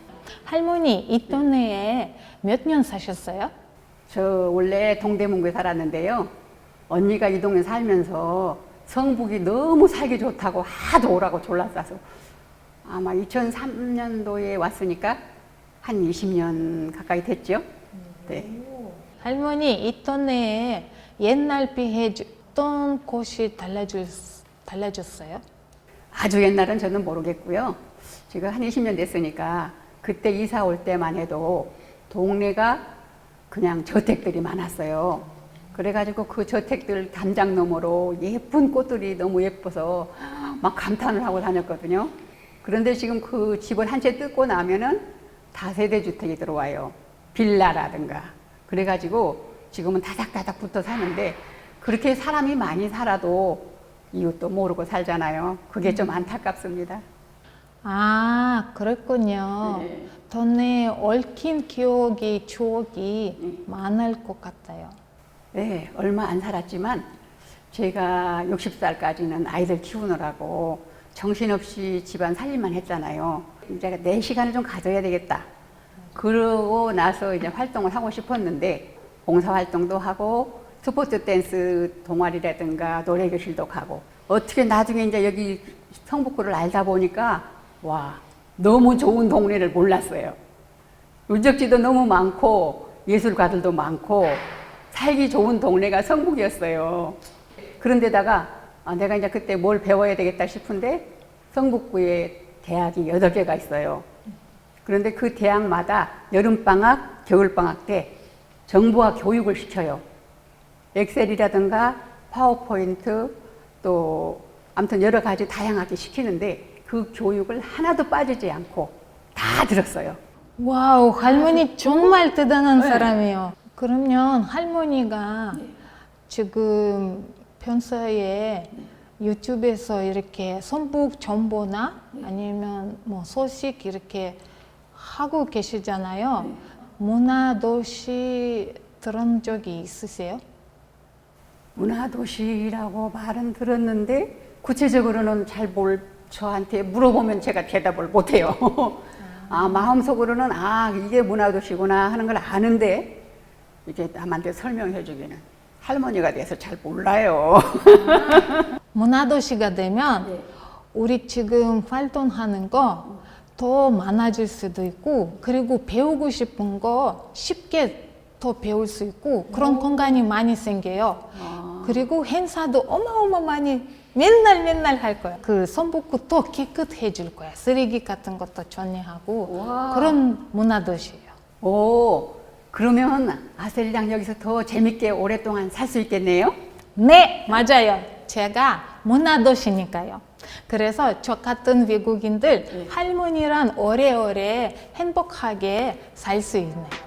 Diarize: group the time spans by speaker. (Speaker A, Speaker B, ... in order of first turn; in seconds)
Speaker A: 0.5-3.5, 18.2-25.4, 57.8-65.0, 120.6-125.7, 126.3-134.4, 134.9-140.4, 149.4-149.8, 157.9-160.4, 160.9-181.3, 187.0-197.0
Speaker B: 4.1-6.3, 6.9-12.0, 12.8-15.2, 15.8-17.6, 26.1-32.9, 33.5-57.0, 59.6-60.1, 65.5-67.1, 67.7-75.5, 76.1-90.4, 91.3-97.2, 97.8-104.1, 104.8-108.2, 108.7-110.0, 111.0-120.2, 122.8-123.2, 141.8-153.2, 153.8-158.7, 171.3-172.1, 179.5-180.2, 181.6-186.6